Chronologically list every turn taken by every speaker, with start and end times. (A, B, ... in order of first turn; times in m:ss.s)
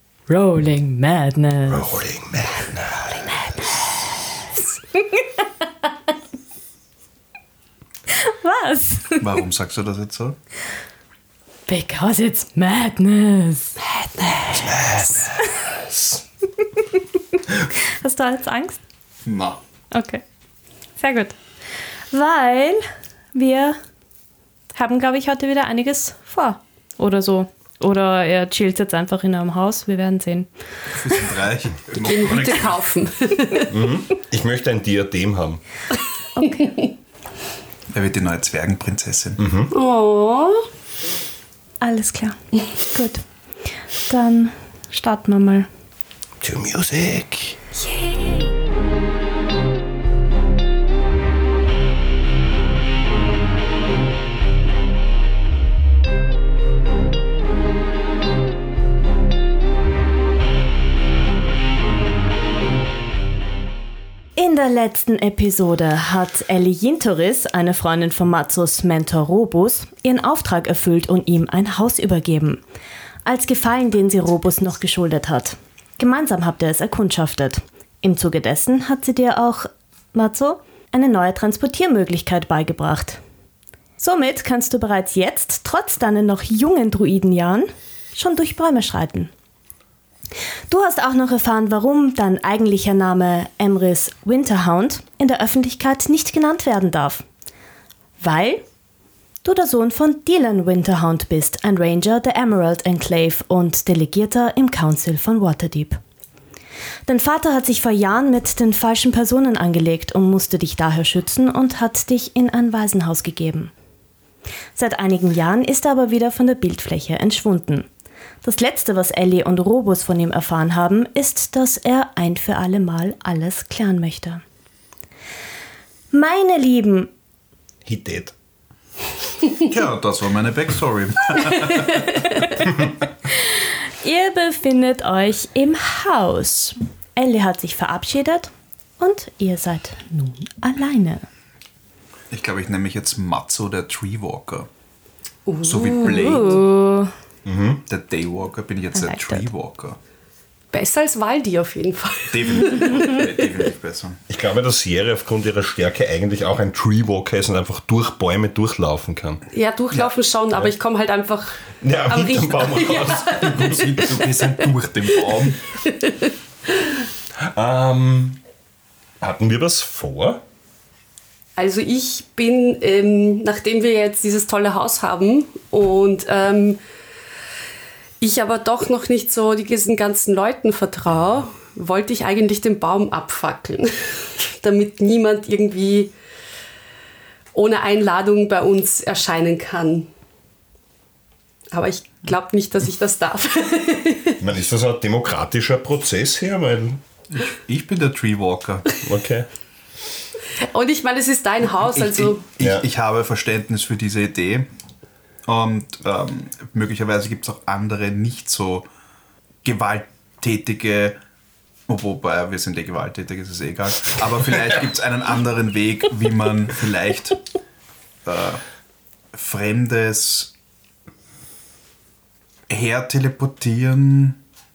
0:00.3-0:02.1 A
0:01.7-0:03.6 B
0:02.7-0:05.4 A
0:08.1-0:09.2 A
0:09.2-0:10.4 C
0:11.7-0:13.8 A
0:17.7-0:18.8 A
0:19.2-0:19.6 C
0:19.9-0:20.2 A
0:21.0-0:21.3 A
0:22.1-0:23.8 A
0:24.7-0:30.5 A
0:30.9-0:32.8 C
0:32.0-0:33.8 D
0:33.7-0:35.6 B
0:36.4-0:36.7 A
0:37.9-0:39.4 C
0:39.4-0:39.7 B
0:39.7-0:40.7 D
0:41.8-0:43.2 A
0:44.0-0:45.7 A
0:46.4-0:47.6 B
0:47.9-0:48.3 D
1:04.4-1:12.6 A
1:13.2-1:23.2 A
1:24.0-1:29.3 A
1:30.7-1:37.2 A
1:38.2-1:38.6 A
1:39.4-1:46.0 A
1:47.0-1:53.7 A
1:54.8-1:57.9 A
1:58.4-2:04.4 A
2:06.1-2:07.1 A
2:07.8-2:08.3 B
2:09.5-2:12.5 C
2:13.4-2:21.2 A
2:22.3-2:24.7 C
2:25.4-2:26.6 D
2:25.6-2:26.6 C
2:26.0-2:27.1 A
2:27.4-2:27.8 B
2:27.9-2:30.0 C
2:28.9-2:29.5 A
2:30.7-2:33.2 D
2:32.3-2:34.2 C
2:34.3-2:39.4 B
2:39.5-2:44.7 D
2:41.8-2:44.0 B
2:43.2-2:45.6 C
2:45.8-2:46.3 D
2:47.4-2:48.4 B
2:49.2-2:50.4 B
2:51.6-2:56.8 D
2:58.2-3:06.1 D
3:07.5-3:10.1 D
3:11.7-3:14.4 D
3:14.4-3:17.0 B
3:17.3-3:18.9 C
3:19.0-3:19.5 B
3:20.6-3:22.4 D
3:21.9-3:24.7 C
3:22.6-3:22.8 B
3:25.4-3:28.9 C
3:29.6-3:31.2 C
3:31.9-3:37.4 C
3:38.2-3:38.6 C
3:39.3-3:40.5 C
3:42.7-3:44.4 C